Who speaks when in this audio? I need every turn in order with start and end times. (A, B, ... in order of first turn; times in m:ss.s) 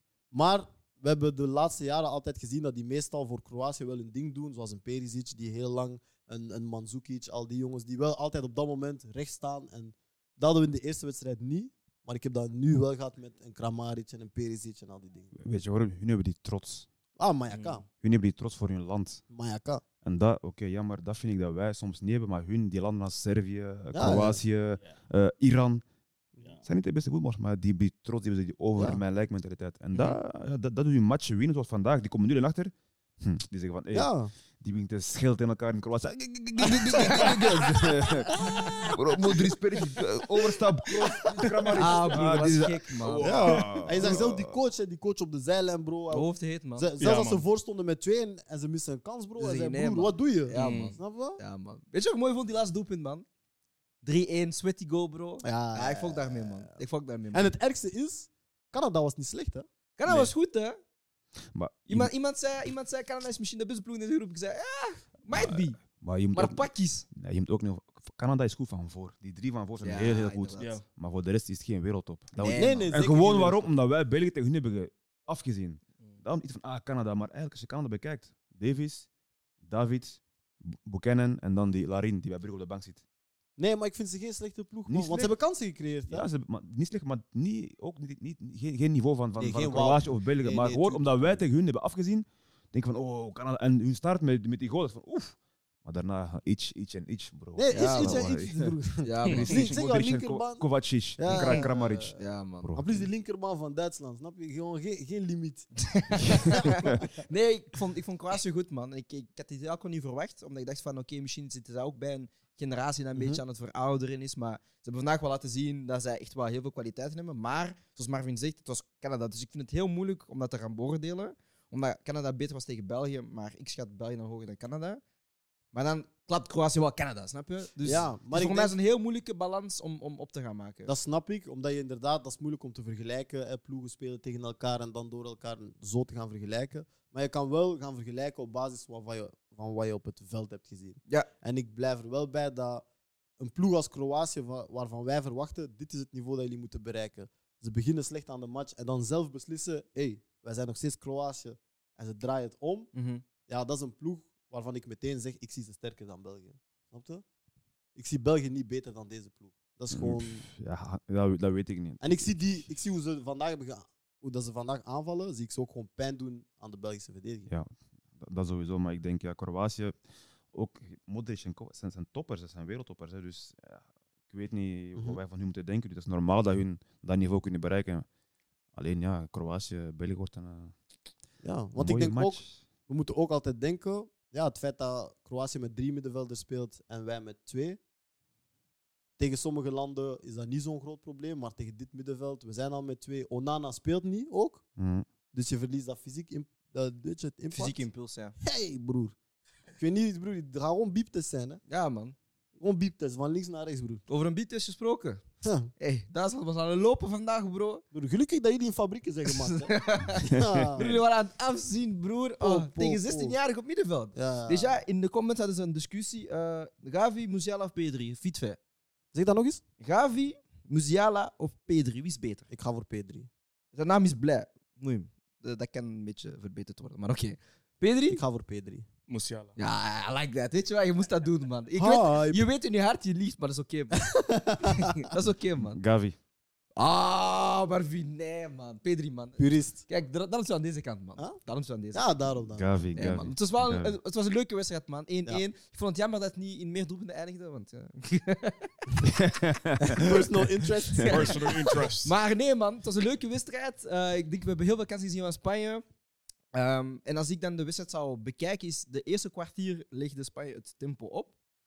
0:00.3-0:15.3 A
0:15.3-0:16.9 B
0:17.2-0:17.8 A
0:17.5-0:17.8 C
0:17.9-0:19.2 B
0:19.3-0:19.8 A
0:20.0-0:25.8 B
0:23.9-0:24.4 A
0:26.6-0:44.5 B
0:28.8-0:29.0 A
0:33.9-0:34.3 A
0:37.0-0:37.3 D
0:37.0-0:37.3 A
0:40.9-0:42.0 A
0:41.7-0:43.6 D
0:43.2-0:51.4 A
0:46.1-0:46.9 D
0:47.0-0:47.4 C
0:49.4-0:53.2 D
0:50.5-0:51.0 C
0:54.0-0:57.5 D
0:55.4-0:56.8 A
0:57.3-0:59.6 A
1:00.0-1:00.8 D
1:01.5-1:02.1 B
1:01.9-1:05.8 D
1:05.3-1:19.1 B
1:06.3-1:07.0 D
1:09.8-1:10.7 D
1:10.6-1:10.8 C
1:12.4-1:12.9 D
1:12.4-1:13.7 A
1:19.6-1:23.0 B
1:23.6-1:26.3 A
1:24.9-1:25.4 B
1:26.1-1:43.0 B
1:29.4-1:31.4 A
1:37.5-1:42.2 A
1:37.7-1:38.3 D
1:39.0-1:39.6 D
1:39.3-1:39.6 C
1:41.4-1:41.7 C
1:42.2-1:42.8 D
1:42.7-1:47.0 A
1:45.9-2:05.0 D
1:46.3-1:47.0 B
1:53.2-1:53.4 A
2:05.7-2:10.9 D
2:07.8-2:08.8 A
2:10.8-2:22.8 A
2:23.4-2:32.9 A
2:32.9-2:33.2 D
2:33.4-2:37.2 A
2:37.9-2:40.5 A
2:39.9-2:42.6 B
2:42.0-2:47.5 A
2:47.5-2:50.0 B
2:50.5-2:58.0 B
2:54.9-2:55.2 A
2:58.7-3:00.7 B
3:01.4-3:07.8 A
3:01.8-3:02.6 B
3:09.2-3:14.6 A
3:14.8-3:15.1 B
3:15.3-3:17.8 A
3:17.5-3:18.3 D
3:18.4-3:19.1 A
3:19.8-3:21.6 A
3:21.7-3:22.2 D
3:22.6-3:24.0 A
3:24.1-3:25.2 D
3:25.4-3:25.7 A
3:25.8-3:27.8 D
3:27.9-3:30.9 A
3:29.3-3:38.6 D
3:30.3-3:31.0 B
3:32.4-3:33.4 A
3:34.1-3:34.8 A
3:39.1-3:39.6 A
3:39.8-3:42.5 D
3:42.5-3:43.3 A
3:43.7-3:48.2 D
3:48.1-3:48.8 A
3:49.1-3:49.5 C
3:49.6-3:54.0 D
3:51.7-3:52.4 A
3:53.9-3:55.0 A
3:54.6-3:55.8 D
3:55.6-3:56.2 B
3:56.8-4:02.2 D
3:59.4-3:59.8 A
4:01.9-4:03.2 A
4:02.5-4:04.0 B
4:02.9-4:08.7 D
4:09.0-4:10.2 B
4:09.8-4:11.4 A
4:11.0-4:11.2 B
4:11.0-4:15.8 D
4:11.1-4:12.1 C
4:16.5-4:21.3 D